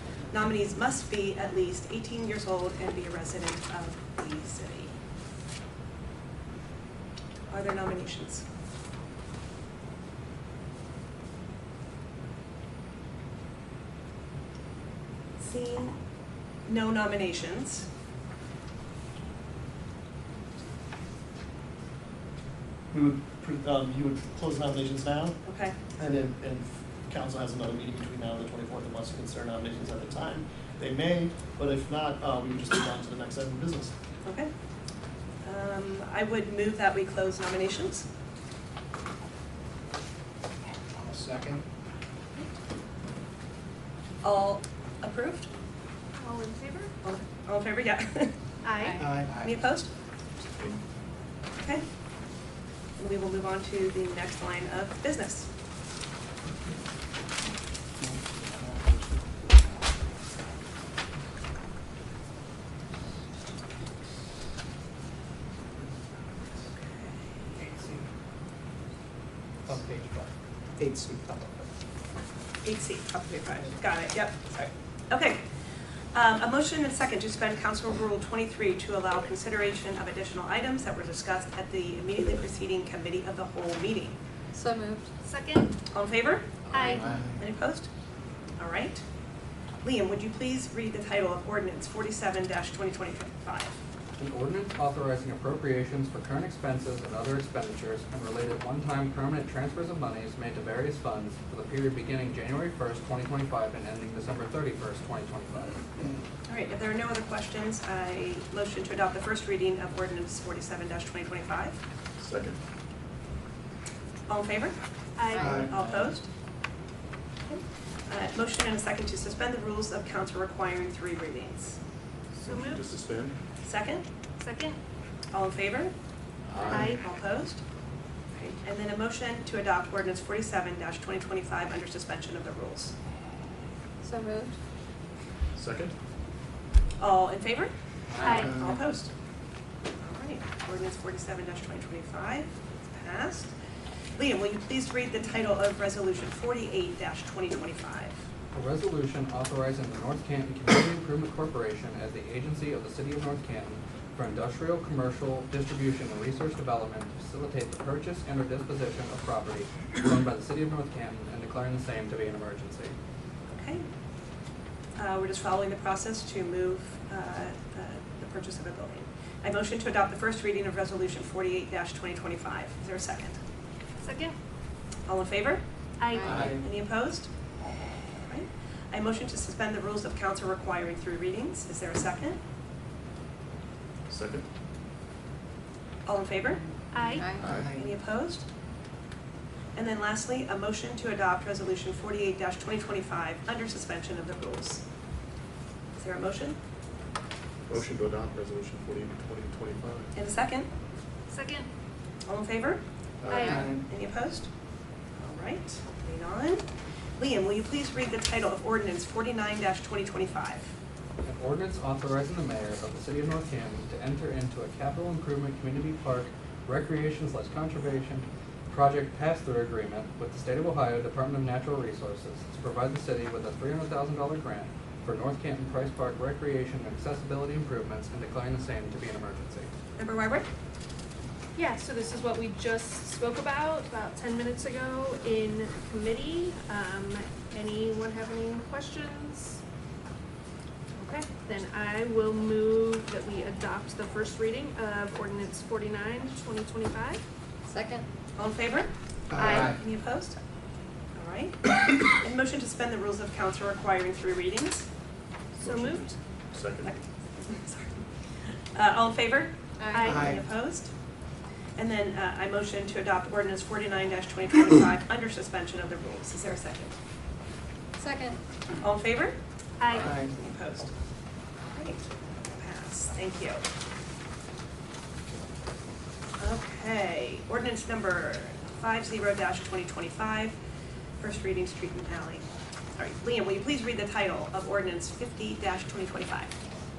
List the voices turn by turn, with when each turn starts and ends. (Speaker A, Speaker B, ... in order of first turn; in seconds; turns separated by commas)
Speaker A: 0.3-4.9, Speaker A: 7.5-8.4, Speaker A: 15.4-15.9, Speaker A: 16.6-17.9, Speaker B: 22.9-25.4, Speaker A: 25.4-25.8, Speaker B: 26.0-33.9, Speaker A: 34.2-34.5, Speaker A: 35.4-38.1, Speaker C: 41.0-41.6, Speaker A: 44.2-45.5, Speaker D: 46.2-46.9, Speaker A: 47.0-48.3, Speaker D: 48.6-49.0, Speaker C: 49.0-49.6, Speaker A: 49.3-49.9, Speaker A: 51.6-51.8, Speaker A: 53.0-55.5, Speaker C: 58.0-59.0, Speaker A: 66.6-67.6, Speaker E: 67.6-68.0, Speaker E: 69.6-70.3, Speaker C: 70.8-71.6, Speaker A: 72.6-75.4, Speaker A: 76.1-84.2, Speaker F: 84.5-85.1, Speaker D: 85.2-85.7, Speaker A: 85.9-87.9, Speaker D: 86.7-87.0, Speaker C: 87.1-87.4, Speaker A: 88.6-89.0, Speaker A: 89.8-93.8, Speaker E: 94.2-105.8, Speaker A: 106.5-111.8, Speaker G: 112.2-112.6, Speaker A: 114.3-114.7, Speaker A: 115.3-116.3, Speaker C: 115.4-116.1, Speaker A: 117.5-121.8, Speaker G: 122.3-123.3, Speaker A: 123.6-124.0, Speaker D: 124.4-124.8, Speaker A: 125.3-125.9, Speaker G: 126.5-126.9, Speaker A: 126.7-127.6, Speaker A: 128.3-132.9, Speaker F: 134.0-134.6, Speaker G: 135.5-135.9, Speaker A: 137.0-139.1, Speaker D: 138.2-138.5, Speaker A: 140.0-143.5, Speaker A: 144.2-148.2, Speaker E: 148.5-162.9, Speaker A: 163.5-163.8, Speaker A: 165.0-173.4, Speaker D: 174.0-174.3, Speaker A: 175.1-175.6, Speaker D: 176.0-176.4, Speaker C: 176.2-176.6, Speaker A: 176.2-177.3, Speaker A: 178.2-182.4, Speaker G: 184.1-184.4, Speaker A: 186.1-186.6, Speaker D: 186.9-187.2, Speaker F: 187.1-187.4, Speaker G: 187.4-187.7, Speaker C: 187.4-187.8, Speaker A: 187.5-188.4, Speaker A: 189.7-194.8, Speaker A: 196.0-196.6, Speaker G: 197.7-200.1, Speaker A: 200.1-200.7, Speaker D: 201.3-201.7, Speaker A: 202.3-204.5, Speaker G: 203.2-203.7, Speaker D: 203.3-203.6, Speaker C: 203.6-203.8, Speaker A: 205.2-206.6, Speaker A: 207.2-210.7, Speaker E: 211.2-229.7, Speaker A: 230.0-230.5, Speaker D: 231.6-239.6, Speaker D: 241.0-247.2, Speaker F: 247.7-248.1, Speaker A: 248.4-250.3, Speaker C: 249.3-249.8, Speaker A: 251.1-254.9, Speaker G: 255.5-256.9, Speaker D: 255.6-256.1, Speaker A: 256.8-258.0, Speaker A: 258.7-260.9, Speaker F: 259.8-260.0, Speaker D: 259.9-260.3, Speaker C: 260.0-260.4, Speaker A: 261.8-266.9, Speaker F: 268.0-268.4, Speaker A: 268.8-269.4, Speaker D: 269.8-270.1, Speaker A: 269.9-270.9, Speaker C: 270.0-270.3, Speaker A: 271.7-273.6, Speaker A: 276.4-280.5, Speaker A: 281.2-282.4, Speaker A: 283.0-286.5